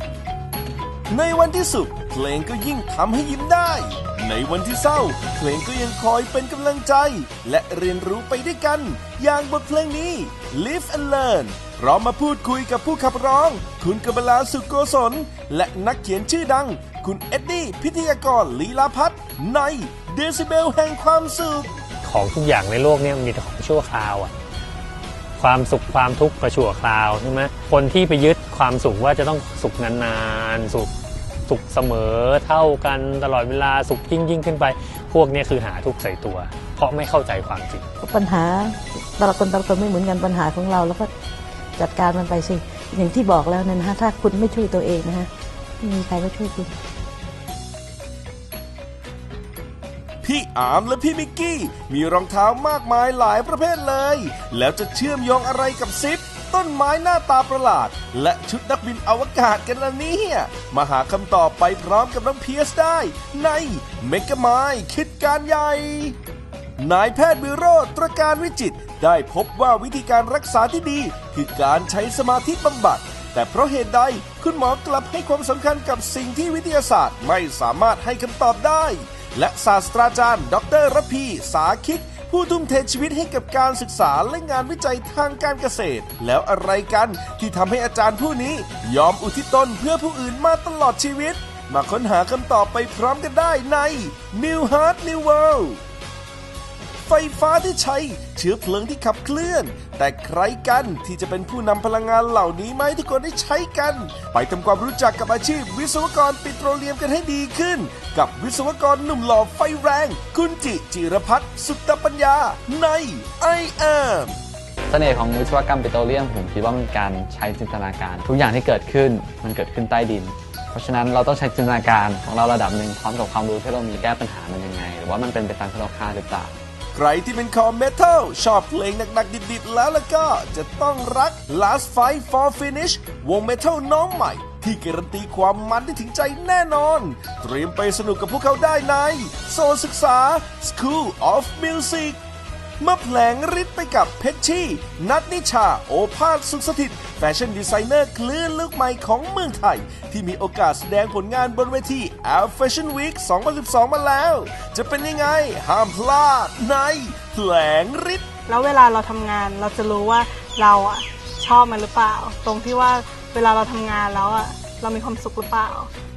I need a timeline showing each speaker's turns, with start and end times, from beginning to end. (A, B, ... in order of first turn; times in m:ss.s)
0:01.1-0:21.7 A
0:22.0-0:24.3 B
0:25.4-0:30.9 B
0:31.4-0:37.8 B
0:38.0-0:41.1 C
0:41.8-0:45.3 C
0:45.8-0:46.7 C
0:50.2-1:06.2 A
1:06.8-1:35.8 A
1:37.0-1:54.4 A
1:54.9-2:06.6 D
2:06.9-2:22.2 A
2:22.8-2:38.2 A
2:38.5-2:45.9 E